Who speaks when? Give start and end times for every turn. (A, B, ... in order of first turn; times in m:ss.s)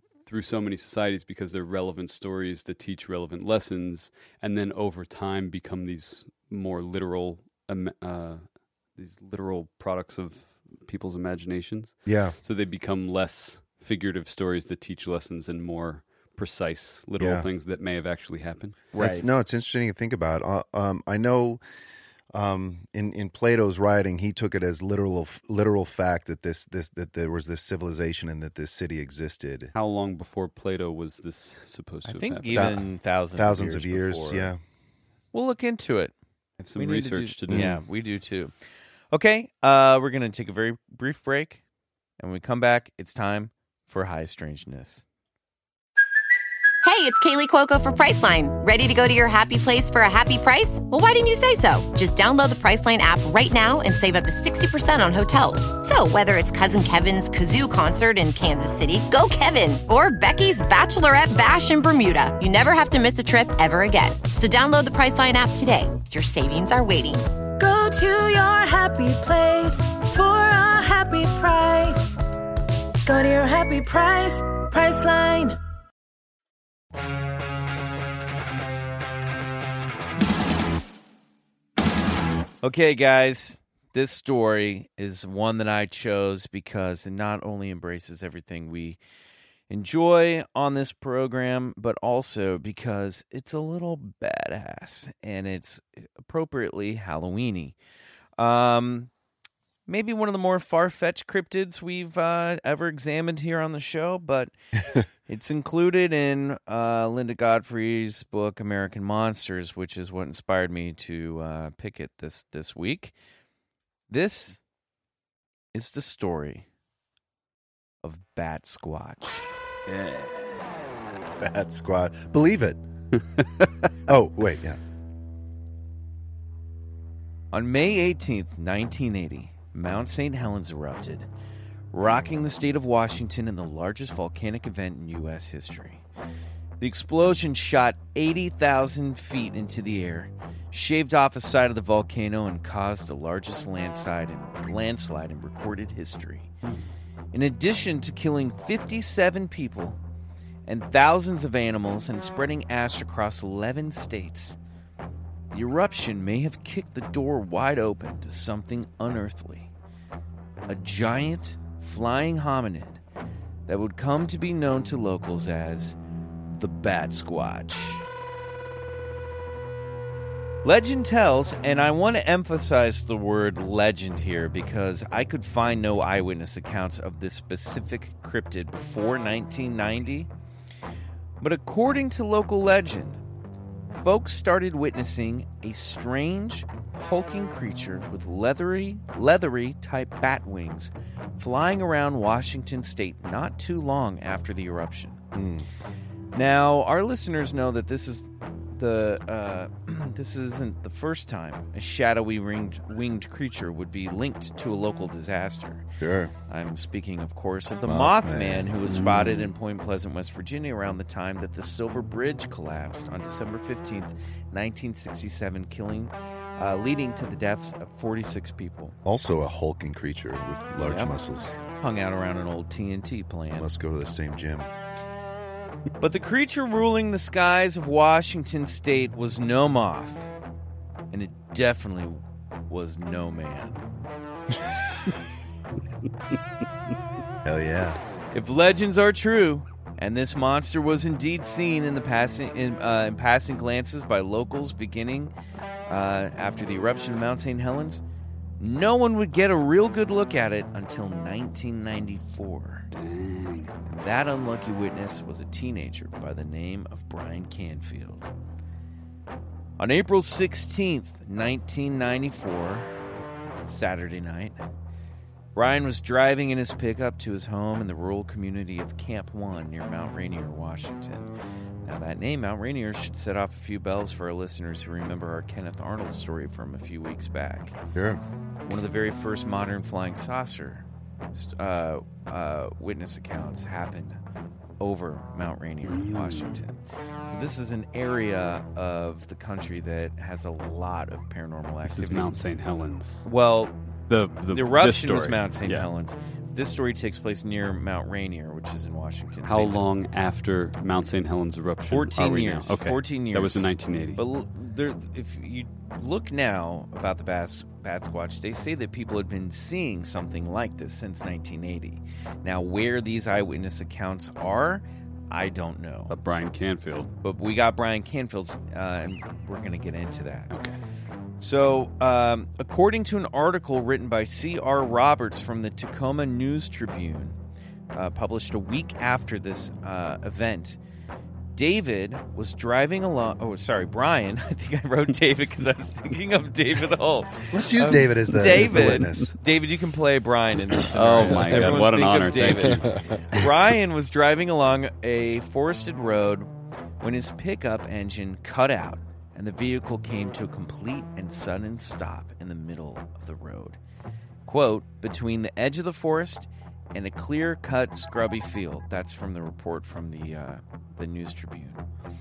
0:00.3-0:08.4 A
0:09.0-0:18.8 A
0:12.1-0:12.4 B
0:17.2-0:17.5 B
0:18.9-0:19.3 C
0:19.0-0:21.6 B
0:22.3-0:29.7 B
0:29.8-0:32.8 A
0:32.0-0:34.5 C
0:32.5-0:34.6 B
0:35.3-0:36.1 C
0:36.6-0:37.8 A
0:36.8-0:38.5 C
0:37.5-0:37.8 B
0:39.1-0:41.6 C
0:42.2-0:45.0 C
0:46.8-1:07.3 D
1:07.6-1:12.2 E
1:13.0-1:15.6 E
1:22.6-1:29.0 C
1:29.7-1:37.8 C
1:38.4-1:39.1 C
1:39.9-1:44.5 C
1:45.2-1:53.1 C
1:54.1-1:54.6 C
1:55.7-1:56.7 C
1:58.0-1:59.5 C
2:01.4-2:02.8 B
2:04.1-2:04.8 B
2:07.5-2:11.3 C
2:11.9-2:16.0 C
2:16.8-2:26.5 C
2:27.3-2:30.0 C
2:30.7-2:34.6 C
2:35.5-2:39.7 C
2:40.7-2:43.0 C
2:43.7-2:46.0 C
2:46.5-2:48.0 C
2:50.6-3:00.3 C
3:01.4-3:03.2 C
3:03.9-3:15.2 C
3:15.3-3:15.7 B
3:16.3-3:25.9 C
3:26.0-3:26.3 B
3:26.5-3:39.0 C
3:27.9-3:28.7 B
3:28.9-3:29.5 A
3:39.0-3:41.6 B
3:40.8-3:41.1 C
3:41.8-3:43.7 C
3:43.6-3:44.7 B
3:46.0-3:50.3 C
3:51.1-3:53.8 C
3:57.4-3:58.0 B
3:58.3-4:05.3 C
4:05.9-4:08.0 C
4:08.6-4:12.9 C
4:12.9-4:13.7 A
4:13.9-4:18.3 C
4:19.8-4:22.9 C
4:23.6-4:24.6 C
4:25.6-4:31.3 C
4:31.8-4:37.8 C
4:38.0-4:38.2 B
4:38.6-4:44.2 C
4:44.8-4:52.4 C
4:45.8-4:46.6 A
4:51.8-4:53.3 A
4:53.2-4:53.8 C
4:54.1-4:55.9 A
4:54.5-4:59.8 C
4:59.5-5:04.2 A
5:01.9-5:16.2 C
5:16.1-5:17.1 A
5:17.2-5:20.5 C
5:20.5-5:20.8 A
5:21.4-5:27.4 C
5:27.9-5:30.8 C
5:31.6-5:46.5 C
5:37.5-5:39.4 B
5:38.5-5:39.1 A
5:40.9-5:43.0 A
5:41.4-5:41.8 B
5:42.7-5:43.0 B
5:47.0-5:53.8 C
5:54.5-6:01.8 C